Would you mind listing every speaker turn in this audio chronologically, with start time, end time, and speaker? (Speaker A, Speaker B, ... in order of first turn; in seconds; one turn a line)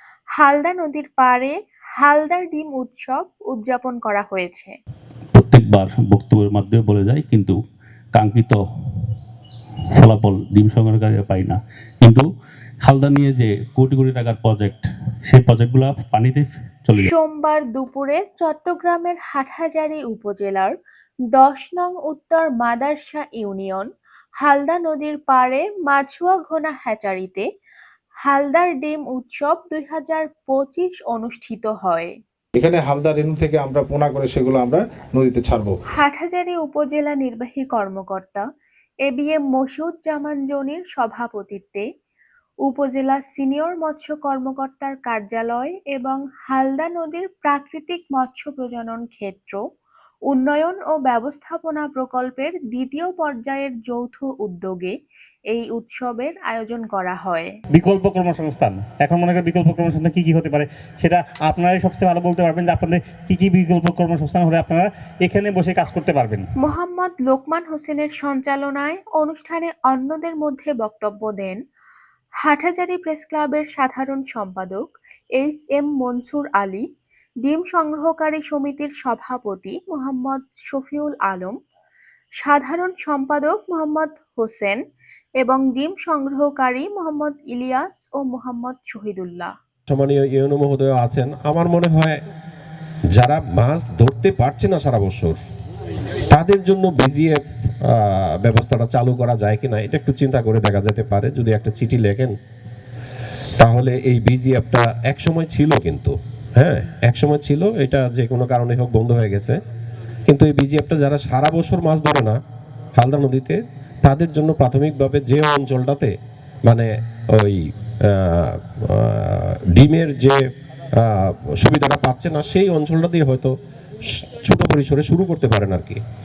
Speaker A: 0.4-4.7
Speaker B: 5.3-7.5
Speaker B: 8.1-8.6
Speaker B: 9.9-12.2
Speaker B: 12.8-17.1
Speaker A: 16.9-20.7
Speaker A: 21.3-23.9
Speaker A: 24.4-27.4
Speaker A: 28.2-32.1
Speaker C: 32.5-35.7
Speaker A: 36.0-38.4
Speaker A: 39.0-41.8
Speaker A: 42.6-49.6
Speaker A: 50.3-54.9
Speaker A: 55.5-57.5
Speaker D: 57.7-66.4
Speaker A: 66.6-71.6
Speaker A: 72.4-76.8
Speaker A: 77.4-81.5
Speaker A: 82.4-84.8
Speaker A: 85.4-89.5
Speaker E: 89.9-92.2
Speaker E: 93.2-95.4
Speaker E: 96.3-102.3
Speaker E: 103.6-109.5
Speaker E: 110.3-112.4
Speaker E: 113.0-116.1
Speaker E: 116.7-120.4
Speaker E: 121.0-123.5
Speaker E: 124.1-126.0